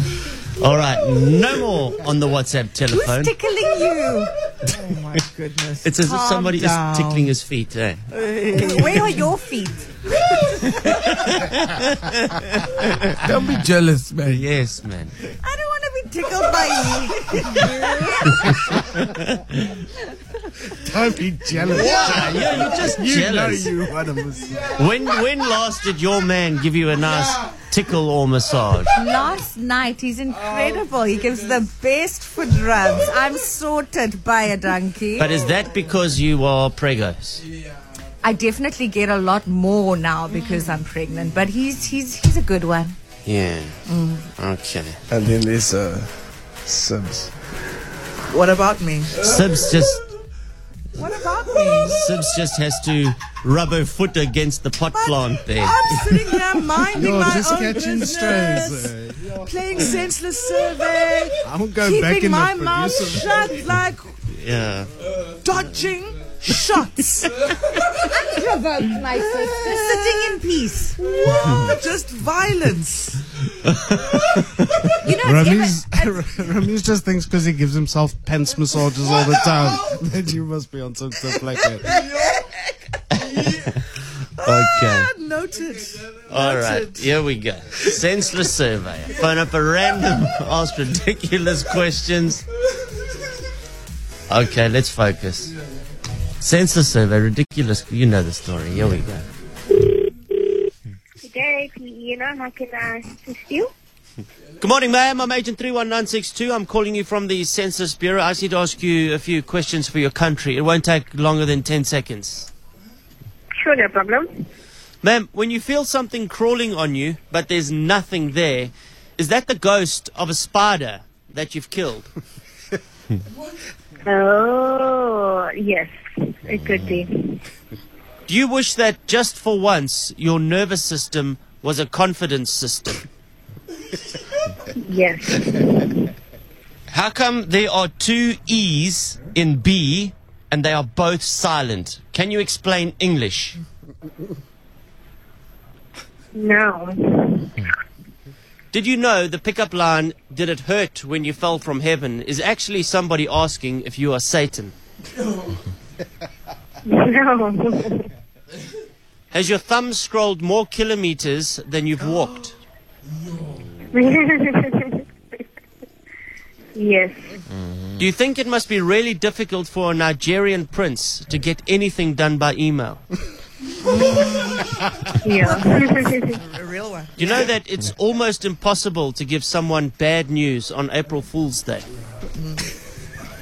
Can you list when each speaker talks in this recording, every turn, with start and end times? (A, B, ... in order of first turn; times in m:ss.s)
0:00.2-0:03.3 A
0:02.9-0:04.3 B
0:04.6-0:07.3 C
0:05.8-0:08.1 A
0:08.1-0:09.3 C
0:08.5-0:10.0 B
0:10.4-0:13.2 A
0:13.2-0:14.4 D
0:14.3-0:15.2 A
0:15.4-0:18.8 B
0:18.7-0:19.8 A
0:20.7-0:24.8 E
0:21.7-0:23.7 A
0:24.7-0:28.9 A
0:28.9-0:35.3 B
0:35.2-0:37.4 A
0:38.2-0:43.0 B
0:43.2-0:43.8 A
0:43.9-0:44.3 B
0:44.4-0:45.0 A
0:45.1-0:47.3 D
0:48.3-0:49.2 C
0:49.1-0:50.0 A
0:51.0-0:52.0 C
0:51.8-0:56.0 A
0:54.9-1:04.2 C
0:56.9-0:59.5 E
1:01.4-1:03.5 E
1:04.3-1:04.9 A
1:05.4-1:07.7 C
1:08.1-1:11.0 B
1:09.4-1:10.4 C
1:11.0-1:13.2 C
1:13.6-1:14.9 A
1:15.0-1:16.1 B
1:15.1-1:21.9 E
1:21.6-1:23.8 C
1:23.2-1:23.8 A
1:24.4-1:27.1 C
1:24.4-1:25.1 A
1:26.3-1:32.4 A
1:34.3-1:35.5 A
1:36.4-1:39.2 A
1:41.2-1:43.7 F
1:44.6-1:52.5 A
1:53.6-1:54.3 F
1:55.0-2:02.1 A
2:04.0-2:05.9 F
2:06.5-2:07.4 F
2:06.5-2:07.0 A
2:08.3-2:13.0 A
2:14.8-2:15.9 F
2:16.9-2:23.6 A
2:26.3-2:27.6 F
2:28.7-2:34.7 A
2:36.9-2:38.1 F
2:39.3-2:42.6 A
2:43.9-2:45.0 F
2:46.8-2:47.4 F
2:48.0-2:53.0 A
2:54.0-2:54.6 B
2:55.2-2:56.4 F
2:55.4-2:57.5 C
2:57.2-3:01.9 A
3:02.4-3:02.7 C